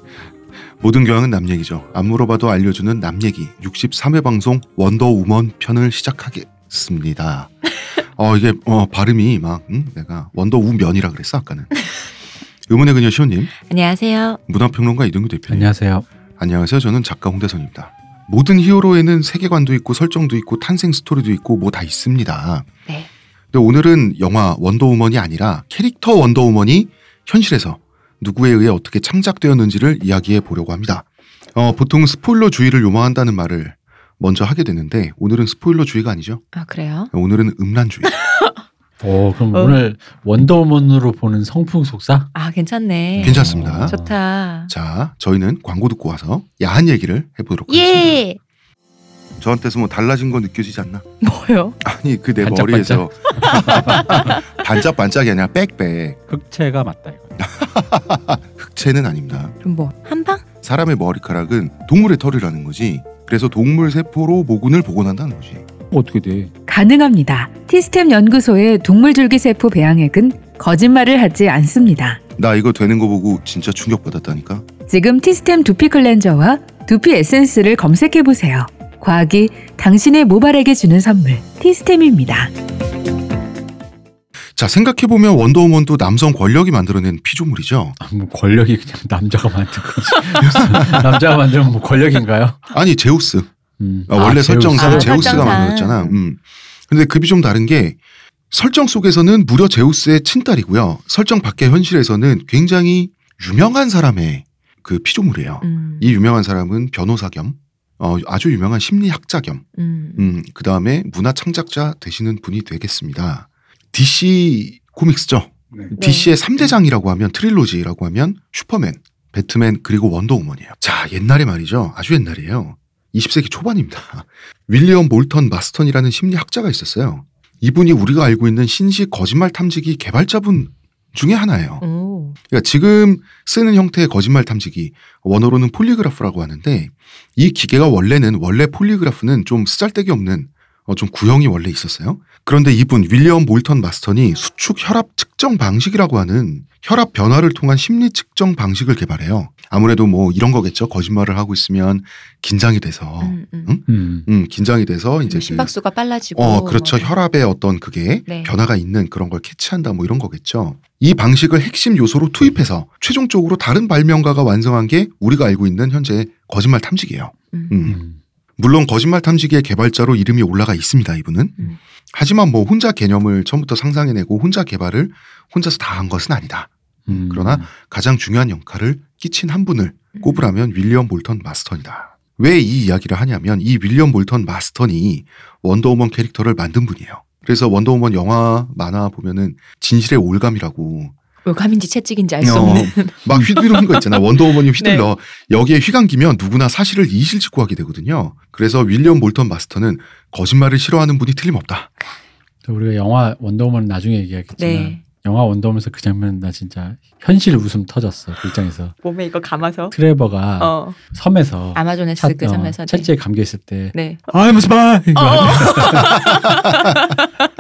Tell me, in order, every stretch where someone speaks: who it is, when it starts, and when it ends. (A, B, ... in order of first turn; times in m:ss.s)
0:00.8-0:11.8 A
0:12.7-0:13.5 A
0:13.7-0:14.4 B
0:14.5-0:15.7 A
0:15.5-0:16.0 C
0:16.4-0:22.7 A
0:23.5-0:36.4 A
0:36.5-0:37.1 B
0:37.1-0:38.1 A
0:38.2-0:38.5 B
0:39.0-0:42.3 C
0:42.4-0:44.7 B
0:43.2-0:44.1 C
0:43.2-0:44.0 A
0:44.7-0:48.2 A
0:47.7-0:48.4 B
0:49.4-0:51.0 A
0:51.2-0:51.8 B
0:51.8-0:56.2 A
0:52.4-0:54.3 C
0:53.4-0:54.4 B
0:56.3-0:57.4 C
0:57.4-0:59.6 A
0:59.6-1:00.4 B
1:00.6-1:05.7 A
1:05.9-1:06.5 C
1:06.7-1:12.2 D
1:12.4-1:14.7 A
1:14.9-1:22.5 D
1:24.6-1:28.0 A
1:28.0-1:32.6 C
1:30.5-1:31.0 A
1:32.7-1:33.5 A
1:33.8-1:35.7 C
1:34.1-1:38.0 A
1:34.7-1:36.2 B
1:38.5-2:11.8 A
1:45.6-1:46.2 B
1:49.8-1:50.3 B
1:56.0-1:56.4 B
2:11.8-2:12.4 B
2:12.5-2:35.7 A
2:33.2-2:33.8 B
2:33.9-2:34.3 C
2:35.3-2:37.2 B
2:36.4-2:48.0 A
2:38.3-2:38.5 B
2:47.5-2:47.8 B
2:47.8-2:48.2 C
2:48.6-2:51.6 A
2:52.1-3:11.1 A
2:57.1-2:57.7 C
3:00.2-3:00.4 B
3:11.4-3:15.1 B
3:12.4-3:21.9 A
3:22.7-3:29.0 C
3:24.6-3:25.0 B
3:29.0-3:30.0 B
3:29.9-3:36.9 C
3:30.6-3:31.0 B
3:31.8-3:33.1 B
3:33.9-3:34.2 B
3:35.2-3:37.5 B